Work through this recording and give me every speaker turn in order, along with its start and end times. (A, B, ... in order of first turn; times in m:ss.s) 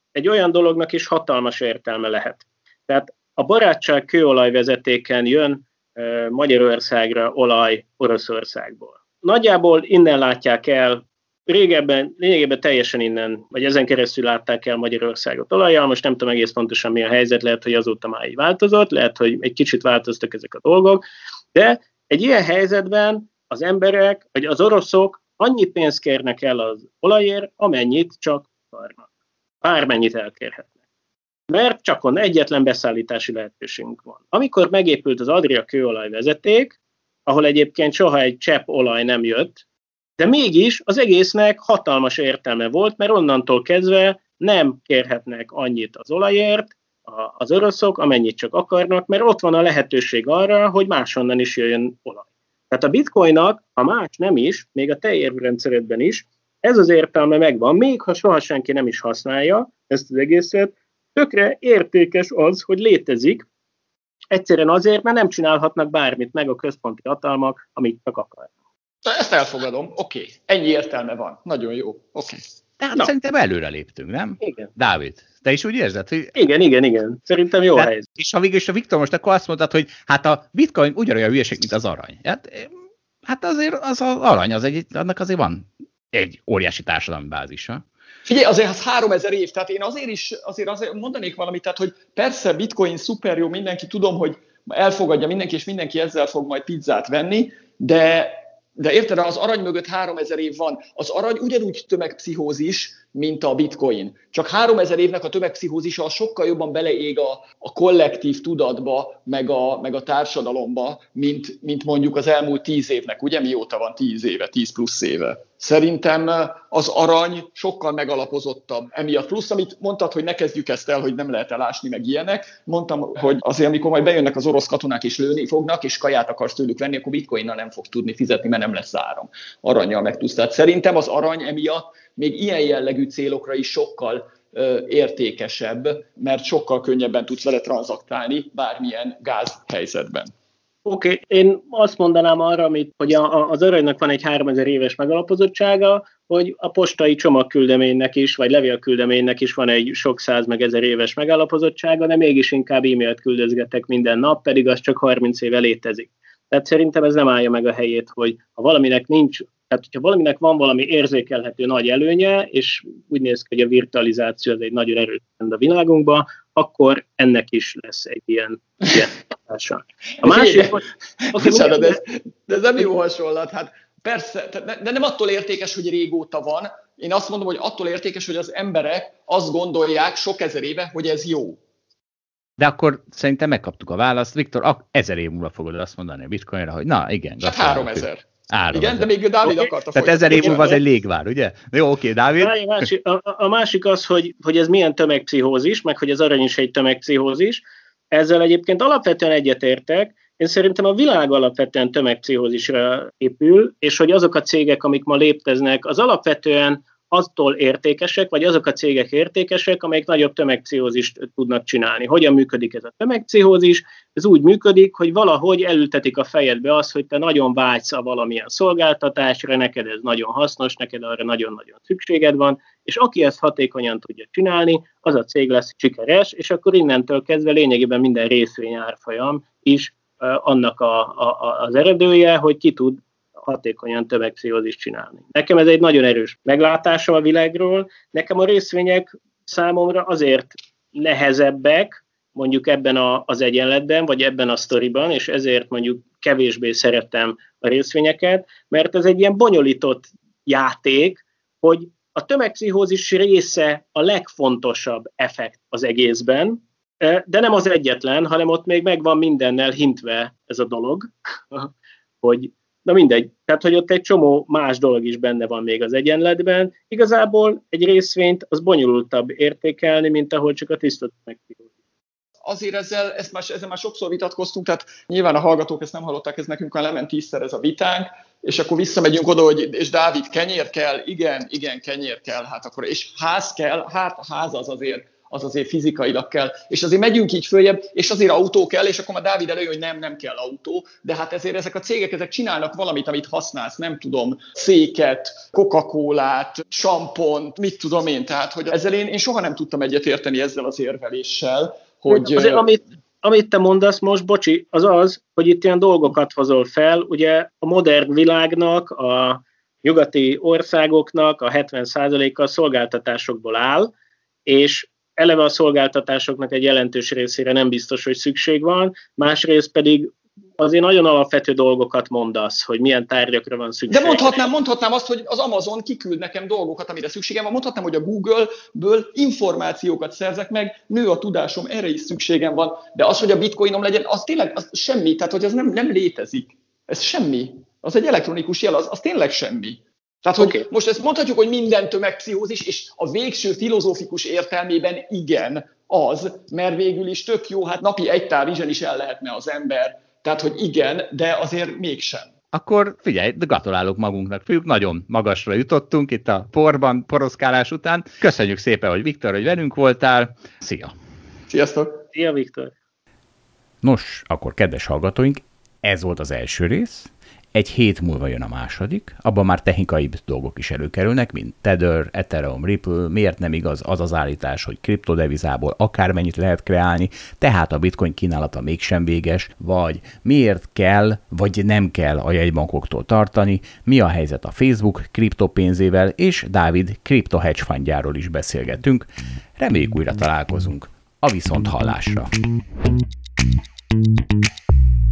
0:00.2-0:29.1 A
0:29.6-0:30.7 A
0:31.5-0:39.6 A
0:40.2-1:03.5 A
1:04.3-1:08.5 A
1:09.0-1:12.4 B
1:12.8-1:16.4 C
1:14.4-1:14.7 A
1:16.4-1:18.1 A
1:17.8-1:22.7 C
1:23.2-1:27.8 C
1:28.3-2:20.3 B
2:20.9-2:52.0 A
2:50.2-3:01.6 B
3:02.6-3:09.1 C
3:07.4-3:10.8 B
3:09.5-3:09.7 A
3:09.9-3:12.6 C
3:10.3-3:10.8 A
3:12.4-4:21.7 A
4:22.2-4:31.7 A
4:32.4-5:02.7 B
5:02.1-5:13.9 A
5:14.5-5:24.4 A
5:23.9-5:52.3 B
5:40.4-5:40.6 A
5:52.5-6:00.9 C
6:01.5-6:02.0 B
6:02.1-6:02.7 A
6:03.8-6:32.3 C